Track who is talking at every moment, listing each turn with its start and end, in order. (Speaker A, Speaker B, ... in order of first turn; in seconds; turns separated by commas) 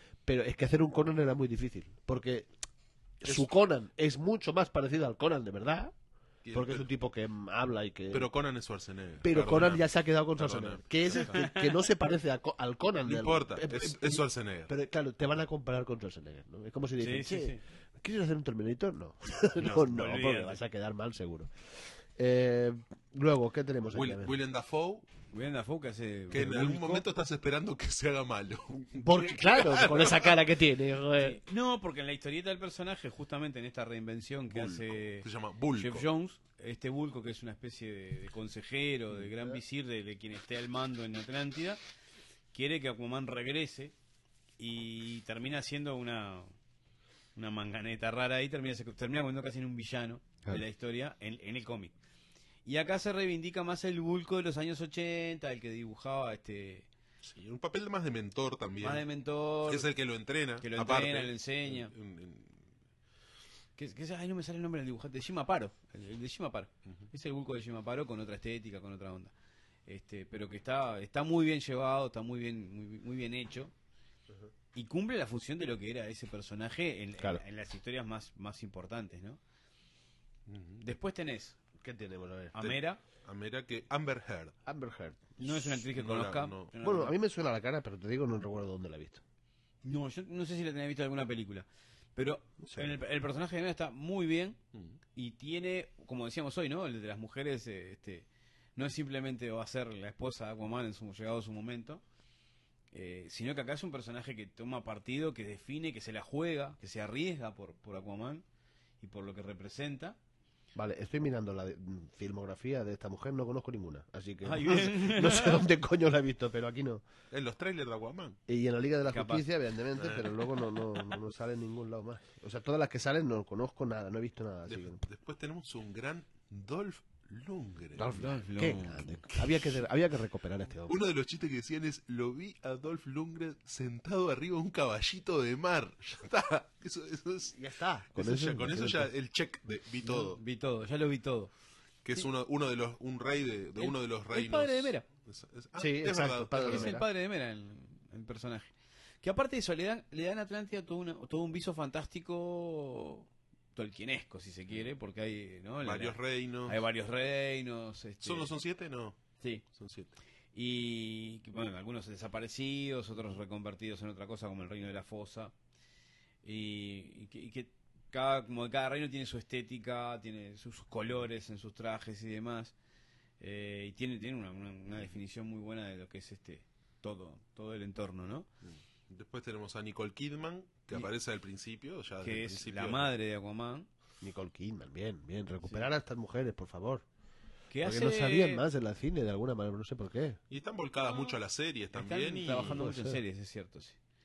Speaker A: 0.2-2.5, Speaker A: 3.2-5.9, Speaker B: 6.4-6.8, Speaker A: 6.5-8.3, Speaker B: 8.1-11.3, Speaker A: 9.2-21.5, Speaker C: 11.1-11.7, Speaker B: 13.0-14.7, Speaker C: 17.0-17.6, Speaker C: 19.6-20.6, Speaker A: 22.1-24.3, Speaker B: 23.9-25.1, Speaker C: 25.3-26.7, Speaker B: 26.3-30.3, Speaker A: 26.4-27.0, Speaker A: 28.9-31.4, Speaker C: 31.2-41.8, Speaker B: 34.5-36.1, Speaker C: 42.5-43.9, Speaker C: 44.6-46.5, Speaker C: 47.4-51.9, Speaker C: 52.6-56.9, Speaker B: 57.2-59.0, Speaker C: 58.8-59.9, Speaker B: 59.6-62.6, Speaker C: 60.6-61.9, Speaker C: 63.8-69.3, Speaker C: 69.9-73.7, Speaker C: 74.7-79.4, Speaker B: 80.5-80.8, Speaker C: 80.8-81.5, Speaker A: 81.8-82.5, Speaker C: 82.5-83.0, Speaker B: 82.6-84.5, Speaker A: 84.7-85.2, Speaker C: 85.4-87.1, Speaker B: 85.7-86.7, Speaker A: 86.8-89.2, Speaker C: 89.8-94.6, Speaker A: 92.6-92.9, Speaker C: 95.1-102.0, Speaker C: 102.9-108.4, Speaker C: 109.0-110.2, Speaker A: 110.7-117.0, Speaker C: 114.4-115.6, Speaker B: 117.3-118.4, Speaker A: 118.5-125.0, Speaker C: 119.1-119.5, Speaker B: 120.0-120.3, Speaker B: 124.7-128.2, Speaker A: 127.9-130.9, Speaker C: 128.1-129.4, Speaker B: 130.9-137.6, Speaker A: 137.5-139.1, Speaker B: 138.1-140.4, Speaker C: 140.0-141.5, Speaker B: 142.0-147.0, Speaker C: 143.8-145.0, Speaker A: 145.8-147.1, Speaker C: 146.6-148.7, Speaker C: 149.2-158.5, Speaker B: 155.8-156.8, Speaker B: 158.2-159.2, Speaker B: 159.7-160.1, Speaker C: 160.5-165.5, Speaker C: 166.4-172.7, Speaker C: 173.4-178.5, Speaker B: 178.6-183.1, Speaker C: 182.2-183.9, Speaker A: 184.2-187.0, Speaker C: 185.6-185.9, Speaker C: 187.7-188.6, Speaker A: 187.8-190.4, Speaker B: 190.5-192.8, Speaker C: 191.9-194.0, Speaker A: 192.6-193.2